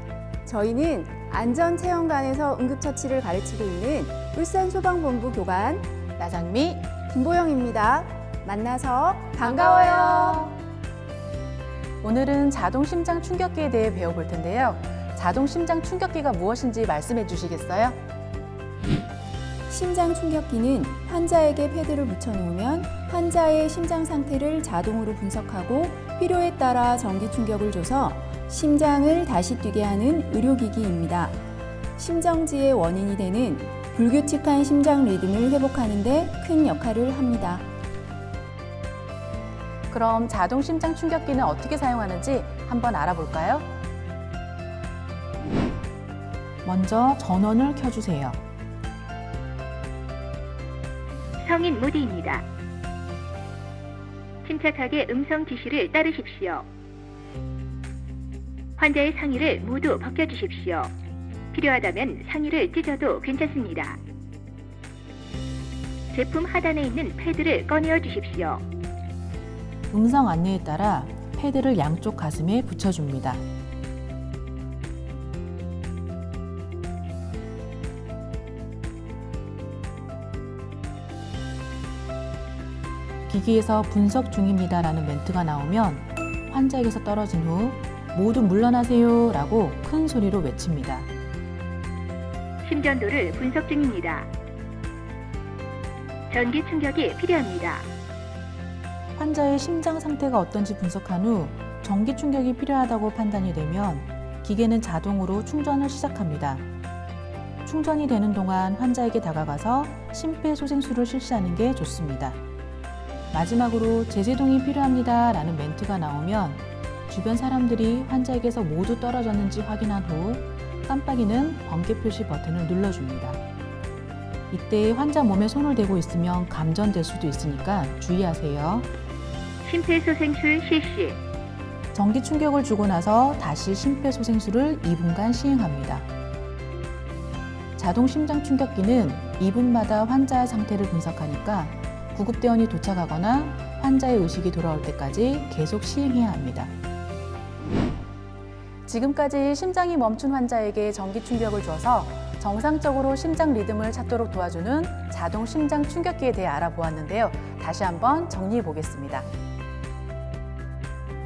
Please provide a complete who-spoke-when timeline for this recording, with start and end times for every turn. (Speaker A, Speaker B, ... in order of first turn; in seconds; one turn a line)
Speaker A: 0.4-5.8
Speaker B: 6.2-6.9
Speaker A: 7.0-10.5
Speaker B: 9.4-10.5
Speaker B: 12.0-18.0
Speaker A: 19.7-31.4
Speaker A: 32.0-37.6
Speaker B: 39.9-43.6
Speaker B: 46.6-48.4
Speaker C: 51.4-52.4
Speaker C: 54.4-56.7
Speaker C: 58.8-60.9
Speaker C: 61.5-64.0
Speaker C: 66.1-68.6
Speaker B: 69.9-73.4
Speaker B: 83.3-91.1
Speaker C: 92.6-94.3
Speaker C: 96.3-97.9
Speaker B: 99.2-106.6
Speaker B: 107.6-112.4
Speaker B: 113.3-123.4
Speaker B: 124.5-128.9
Speaker C: 129.6-131.2
Speaker B: 131.9-136.1
Speaker B: 137.8-146.7
Speaker B: 148.8-159.3